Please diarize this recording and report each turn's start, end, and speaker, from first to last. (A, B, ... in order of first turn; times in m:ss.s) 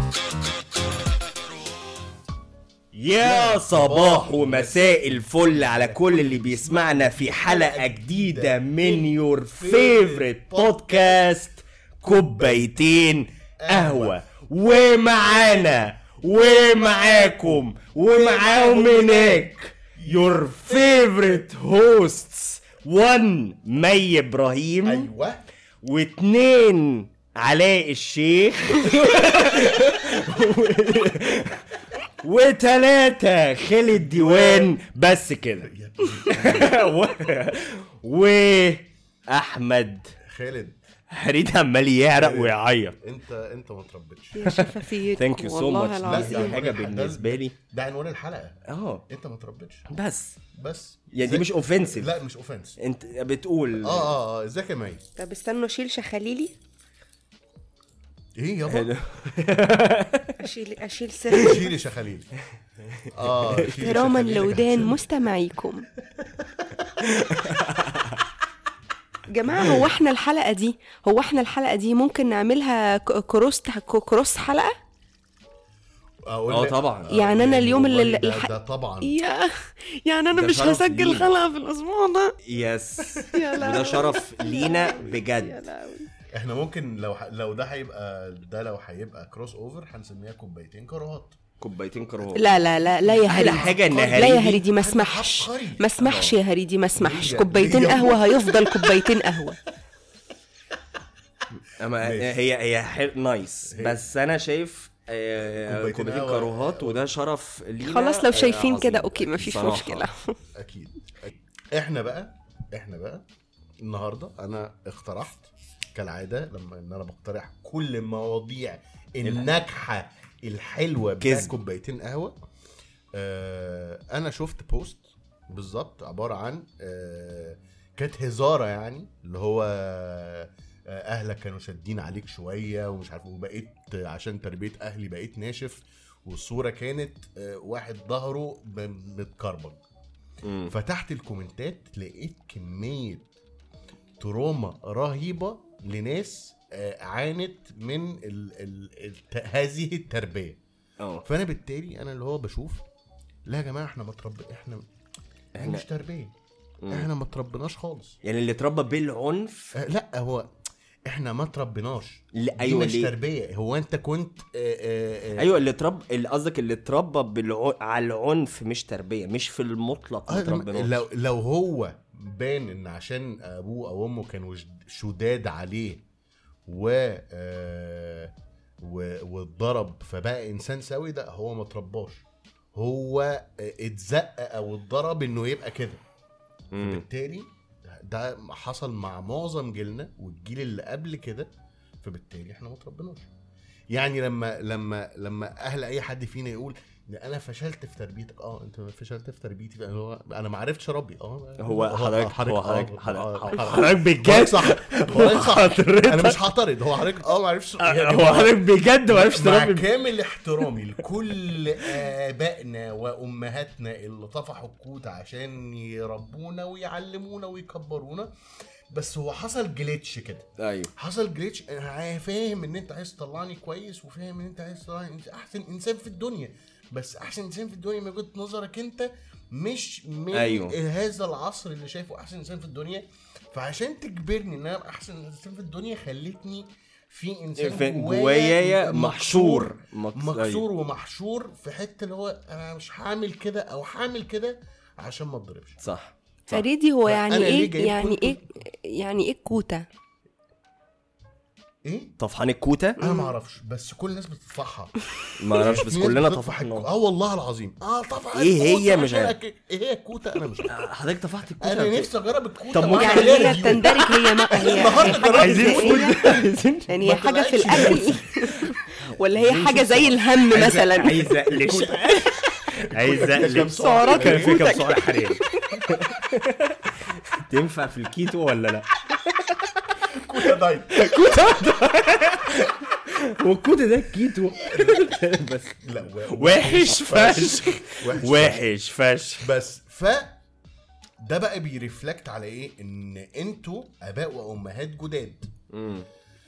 0:02.9-0:25.1 A
0:03.2-0:11.3 B
0:12.0-0:12.8 B
0:13.6-0:14.2 B
0:15.1-0:21.4 B
0:24.8-0:25.4 B
0:25.8-0:31.6 A
0:32.2-0:35.7 A
0:34.0-0:34.8 B
0:35.6-0:36.8 B
0:36.2-0:40.1 A
0:40.2-0:40.8 B
0:41.1-0:43.0 A
0:42.2-0:44.5 B
0:44.3-0:46.5 C
0:44.4-0:47.5 A
0:46.0-0:49.9 B
0:48.7-0:49.0 A
0:49.9-0:50.4 A
0:50.5-0:52.8 B
0:51.1-0:52.1 A
0:52.8-0:54.1 A
0:53.8-0:55.0 B
0:55.2-0:56.5 C
0:58.4-0:59.3 B
0:58.7-1:00.5 A
1:00.4-1:01.6 C
1:01.3-1:02.3 B
1:03.0-1:04.6 A
1:03.1-1:05.0 B
1:03.8-1:05.9 C
1:06.1-1:06.8 B
1:07.0-1:08.2 A
1:09.3-1:14.7 C
1:16.3-1:19.2 B
1:16.5-1:17.1 A
1:17.1-1:18.5 C
1:19.0-1:22.3 C
1:20.3-1:21.3 A
1:22.4-1:25.6 A
1:23.2-1:26.1 C
1:26.3-1:31.4 B
1:31.6-1:32.5 A
1:32.4-1:39.6 C
1:33.0-1:35.8 B
1:33.3-1:34.6 A
1:36.0-1:36.4 A
1:37.0-1:39.2 B
1:41.6-1:50.1 A
1:42.0-1:42.4 B
1:43.7-1:44.0 B
1:45.6-1:47.0 B
1:47.8-1:50.4 C
1:50.5-1:53.2 B
1:53.8-2:02.3 B
2:01.2-2:01.5 A
2:03.1-2:19.8 B
2:20.4-2:20.7 A
2:20.7-2:23.3 B
2:24.2-2:30.6 B
2:31.0-2:31.2 A
2:31.2-2:32.8 B
2:33.5-2:34.8 B
2:35.6-2:35.8 A
2:35.6-2:36.3 B
2:36.8-2:37.1 A
2:36.9-2:38.2 B
2:38.2-2:39.8 A
2:39.7-2:40.5 B
2:41.1-2:45.6 B
2:42.3-2:43.1 A
2:45.4-2:50.9 A
2:50.3-2:56.0 B
2:56.7-3:02.2 B
3:02.7-3:06.0 B
3:06.7-3:07.0 A
3:06.8-3:11.5 B
3:12.0-3:13.3 B
3:13.9-3:38.3 B
3:21.6-3:26.5 A
3:27.8-3:29.9 A
3:38.9-4:05.8 B
3:40.6-3:40.9 A
3:50.3-3:50.8 A
3:57.6-4:00.6 A
4:05.8-4:06.6 A
4:06.5-4:09.8 C
4:07.0-4:08.4 B
4:11.8-4:12.1 B
4:12.2-4:13.0 A
4:13.0-4:14.9 B
4:13.0-4:13.3 C
4:15.4-4:16.9 A
4:15.6-4:20.8 B
4:18.3-4:19.3 A
4:20.7-4:22.1 A
4:21.6-4:26.4 B
4:22.7-4:26.9 A
4:22.9-4:26.2 C
4:26.9-4:31.3 C
4:27.0-4:28.2 B
4:27.7-4:28.1 A
4:29.3-4:39.7 A
4:31.5-4:32.3 B
4:32.9-4:34.8 B
4:33.8-4:35.0 C
4:40.1-4:41.6 B
4:40.3-4:49.5 A
4:44.7-4:48.6 B
4:49.4-4:50.4 B
4:51.2-4:55.5 B
4:55.7-4:56.0 A